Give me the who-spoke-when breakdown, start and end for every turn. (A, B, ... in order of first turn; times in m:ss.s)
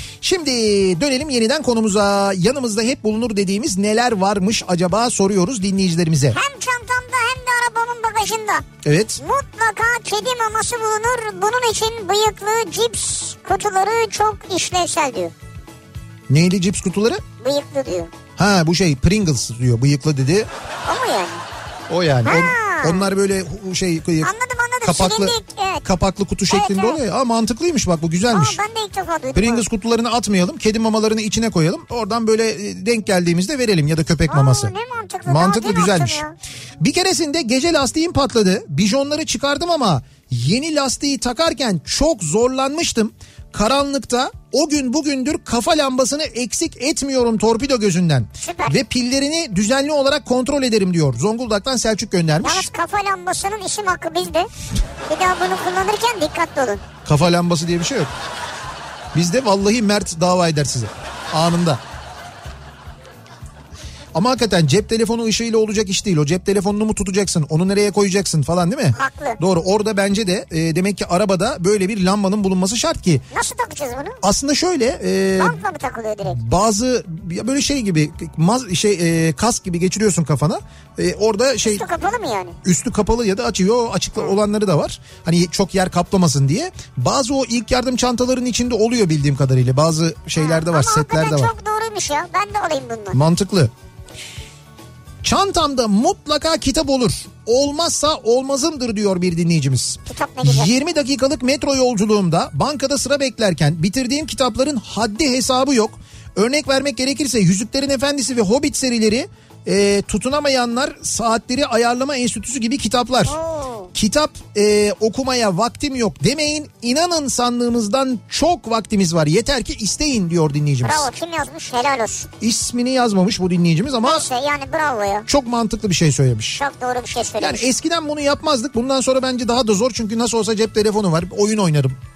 0:00.2-0:06.4 A
0:06.3-0:08.6 B
0:08.8-0:09.2 A
0:09.2-0:15.3 B
0:16.3-0:17.2 A
0:17.4-0:18.1 B
0:18.4-0:20.5 A
0:20.8-0:21.4 B
0:21.9-0:24.3 A
0:22.2-0:23.1 B
0:24.2-0:25.8 B
0:24.8-0:28.6 A
0:26.5-0:27.0 B
0:28.3-0:29.6 B
0:29.3-0:34.7 A
0:34.3-0:36.3 B
0:35.3-0:36.2 A
0:36.8-0:52.7 A
0:48.4-0:48.8 B
0:52.4-0:54.5 B
0:55.1-0:56.8 B
0:57.0-0:58.1 A
0:59.1-1:01.8 A
1:04.1-1:13.2 A
1:08.9-1:09.4 B
1:13.3-1:14.2 B
1:14.2-1:15.6 A
1:15.4-1:16.4 B
1:16.2-1:21.8 A
1:21.6-1:22.6 B
1:22.6-1:31.5 A
1:30.4-1:33.2 B
1:33.1-1:33.7 A
1:35.2-1:53.4 A
1:40.1-1:40.7 B
1:53.2-1:53.9 B
1:53.9-2:01.1 A
2:00.8-2:02.3 B
2:02.4-2:04.2 A
2:04.0-2:05.3 B
2:05.3-2:06.6 A
2:06.6-2:07.6 B
2:07.4-2:12.0 A